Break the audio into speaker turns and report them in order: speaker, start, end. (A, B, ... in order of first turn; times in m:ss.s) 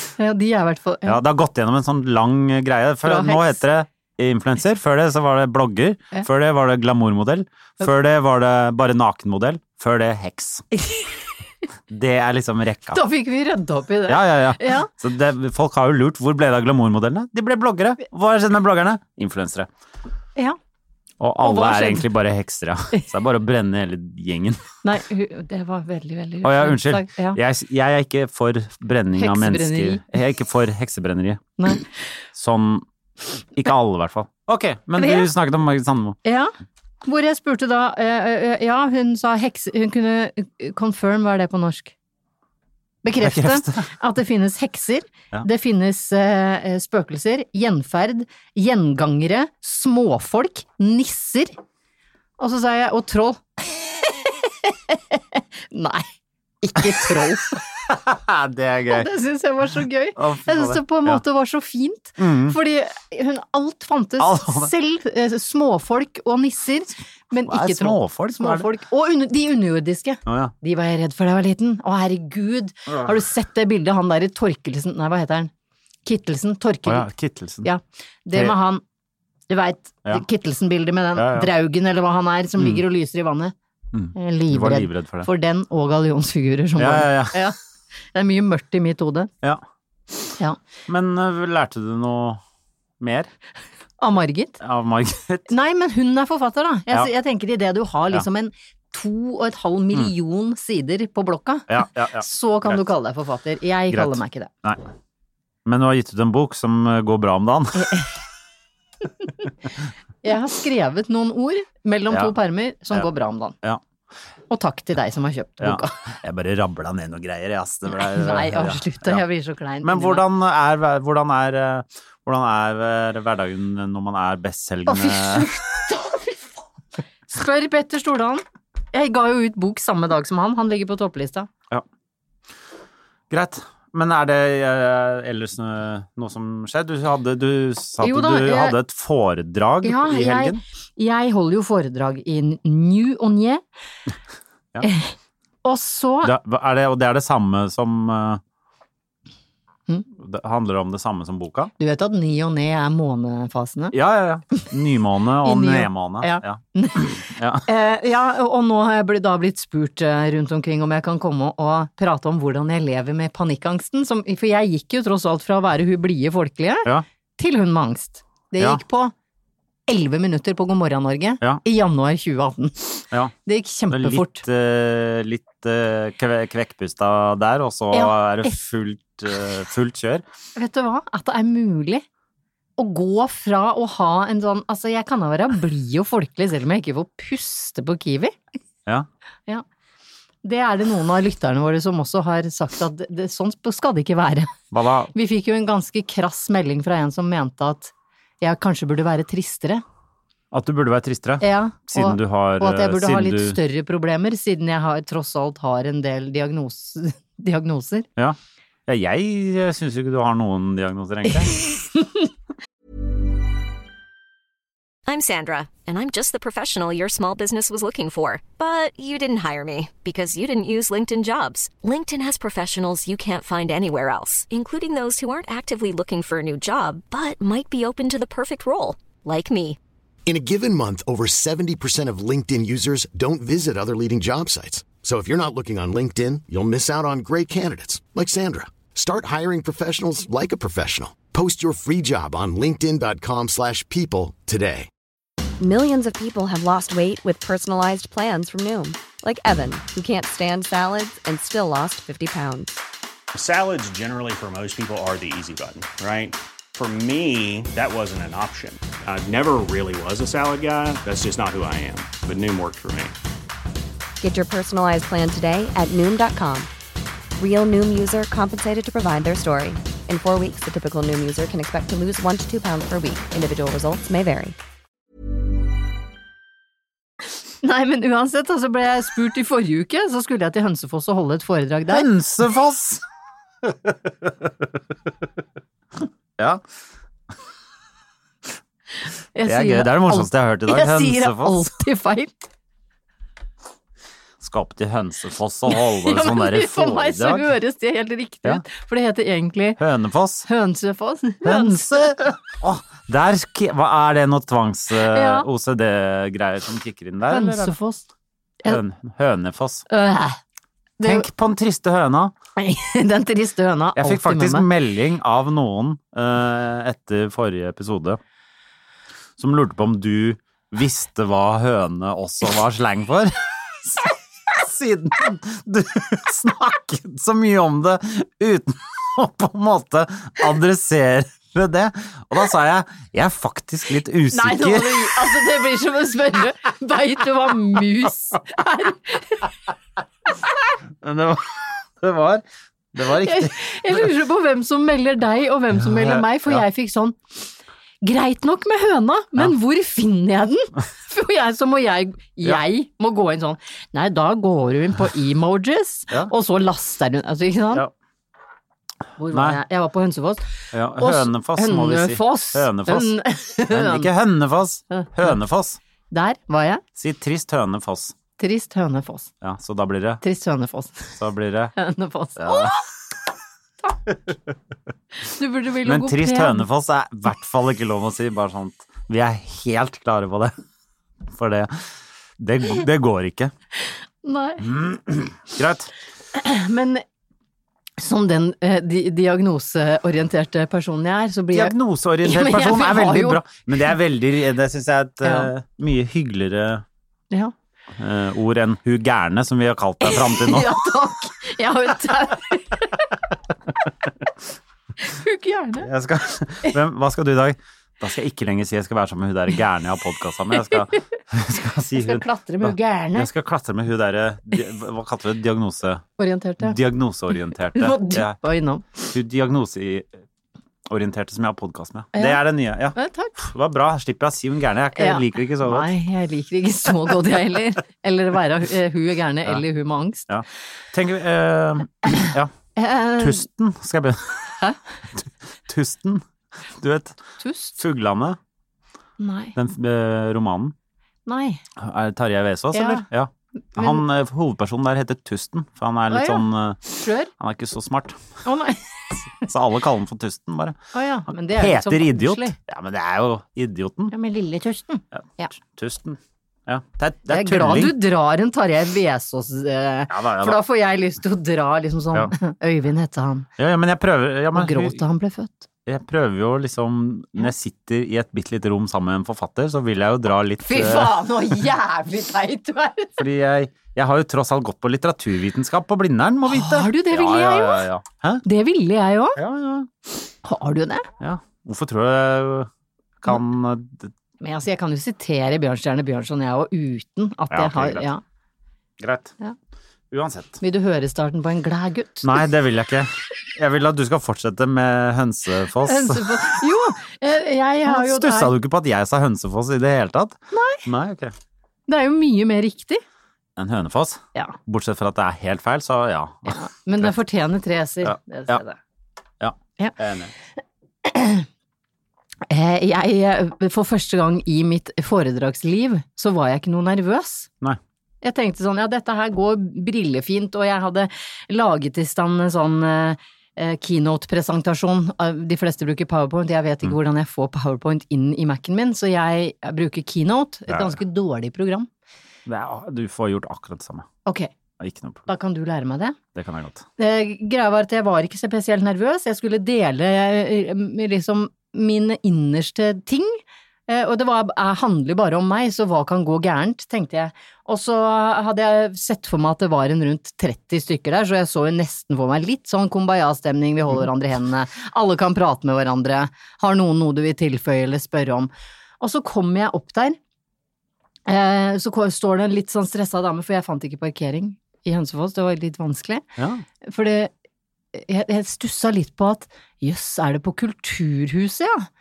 0:00.2-0:01.2 A
0:01.1-0:10.6 B
0:03.0-0:03.6 A
0:11.9-0:13.0 B
0:12.9-0:14.9 A
0:14.1-0:19.7 B
0:21.2-0:24.7 B
0:21.4-0:22.1 A
0:24.8-0:27.4 A
0:26.4-0:31.5 B
0:29.2-0:30.1 A
0:31.6-0:31.8 A
0:32.4-0:32.9 B
0:33.6-0:36.2 B
0:35.0-0:35.3 A
0:36.2-0:36.5 A
0:37.0-0:41.9 A
0:43.0-0:51.6 A
0:43.2-0:43.8 B
0:52.4-0:53.4 A
0:54.6-0:56.1 A
0:56.6-0:57.6 A
0:57.9-0:59.1 B
0:58.9-1:15.5 A
1:00.2-1:01.2 B
1:02.2-1:02.6 B
1:04.2-1:04.7 B
1:07.5-1:08.7 B
1:10.3-1:10.5 B
1:16.1-1:17.1 A
1:16.9-1:17.7 B
1:17.6-1:18.8 A
1:19.5-1:23.5 A
1:21.2-1:21.5 B
1:23.9-1:25.3 B
1:24.2-1:27.6 A
1:26.8-1:27.4 B
1:28.1-1:29.3 A
1:30.9-1:32.4 B
1:33.0-1:33.3 B
1:34.0-1:34.6 A
1:34.6-1:35.5 B
1:35.5-1:44.5 A
1:41.7-1:42.8 B
1:43.9-1:44.8 B
1:45.6-1:47.9 B
1:47.8-1:48.1 A
1:50.2-1:53.6 A
1:54.5-1:55.9 A
1:55.6-1:59.2 B
1:58.0-2:00.2 A
1:59.8-2:05.5 B
2:04.9-2:06.5 A
2:07.3-2:11.5 A
2:13.3-2:20.6 B
2:18.0-2:18.8 A
2:19.8-2:23.6 A
2:24.8-2:25.1 A
2:25.6-2:26.3 A
2:26.2-2:28.4 B
2:30.2-2:31.7 B
2:31.8-2:34.0 A
2:33.9-2:37.6 B
2:35.4-2:49.1 A
2:49.9-2:54.4 A
2:53.9-3:00.2 B
2:57.9-2:58.6 A
3:00.6-3:02.0 A
3:02.8-3:08.4 A
3:10.4-3:14.5 A
3:14.7-3:15.1 B
3:15.1-3:19.8 A
3:20.5-3:23.6 B
3:21.4-3:28.1 A
3:28.2-3:31.7 B
3:35.1-3:49.8 C
3:50.3-4:04.9 D
4:05.6-4:12.8 E
4:13.3-4:23.2 F
4:24.2-4:26.7 E
4:27.4-4:34.6 E
4:37.6-4:42.1 A
4:41.9-4:43.0 B
4:43.6-4:43.9 B
4:49.4-4:52.4 A
4:49.5-4:51.6 B
4:54.4-4:57.5 B
4:55.7-4:59.8 A
4:59.8-5:00.5 B
5:00.5-5:02.3 A
5:01.4-5:07.7 B
5:05.0-5:05.5 A
5:07.3-5:08.0 A
5:08.7-5:09.8 B
5:09.9-5:10.4 A
5:11.0-5:11.3 A
5:11.0-5:12.3 B
5:12.6-5:14.7 A
5:14.0-5:18.2 B
5:19.4-5:35.1 B
5:34.3-5:39.5 A
5:41.0-5:43.6 B
5:43.1-5:47.4 A
5:45.8-5:46.6 B
5:48.0-5:57.8 A
5:59.2-6:04.1 A
5:59.3-5:59.6 B
6:00.7-6:05.8 B
6:06.1-6:06.8 A
6:07.0-6:08.2 B
6:08.4-6:09.3 A
6:09.4-6:10.2 B
6:10.2-6:11.2 A
6:11.2-6:11.8 B
6:11.8-6:12.8 A
6:12.4-6:12.8 B
6:15.3-6:16.6 A
6:15.8-6:20.5 B
6:21.3-6:21.8 B
6:22.4-6:23.5 B
6:24.2-6:24.7 A
6:24.6-6:25.9 B
6:26.3-6:27.0 A
6:28.0-6:33.4 A
6:31.5-6:36.8 B
6:35.2-6:35.5 A
6:38.0-6:40.8 B
6:40.0-6:43.1 A
6:45.0-6:45.9 A
6:45.8-6:56.1 B
6:52.0-6:53.3 A
6:56.2-6:56.8 A
6:56.6-6:58.4 B
6:57.7-6:59.1 A
6:59.1-7:00.1 B
7:00.9-7:05.9 B
7:02.2-7:02.4 A
7:03.0-7:03.4 A
7:05.0-7:10.3 A
7:10.3-7:12.5 B
7:12.8-7:13.4 A
7:13.2-7:14.6 B
7:15.2-7:17.2 B
7:17.4-7:17.8 A
7:17.8-7:18.4 B
7:19.2-7:19.5 A
7:19.6-7:20.8 B
7:21.3-7:21.6 A
7:21.8-7:26.8 B
7:22.7-7:23.0 A
7:23.8-7:24.0 A
7:26.1-7:27.3 A
7:27.4-7:28.2 B
7:28.4-7:29.4 A
7:29.4-7:30.8 B
7:30.9-7:32.6 A
7:31.5-7:34.1 B
7:34.1-7:35.5 A
7:35.2-7:38.0 B
7:37.3-7:43.5 A
7:40.1-7:40.6 B
7:43.6-7:45.0 B
7:44.5-7:45.7 A
7:45.9-7:51.2 B
7:50.6-7:53.2 A
7:53.2-7:58.4 B
7:56.5-7:57.9 A
7:58.4-7:59.4 A
7:59.4-7:59.9 B
8:00.4-8:01.1 A
8:01.2-8:02.7 B
8:03.2-8:04.1 B
8:04.4-8:08.2 A
8:07.5-8:08.1 B
8:09.0-8:09.3 B
8:10.1-8:10.6 B
8:10.6-8:12.4 A
8:12.2-8:16.4 B
8:15.8-8:18.5 A
8:17.9-8:21.3 B
8:20.5-8:20.8 A
8:21.9-8:23.0 A
8:23.6-8:27.1 B
8:26.5-8:28.8 A
8:28.0-8:28.6 B
8:29.4-8:30.3 B
8:31.0-8:31.5 A
8:32.5-8:37.5 A
8:38.2-8:51.9 A
8:50.7-8:51.0 B
8:52.5-8:54.1 B
8:54.8-8:55.3 B
8:55.3-8:56.2 A
8:56.4-8:56.8 B
8:57.0-9:20.2 A
9:21.3-9:26.2 A
9:26.4-9:26.6 B
9:26.8-9:27.3 A
9:27.9-9:31.9 A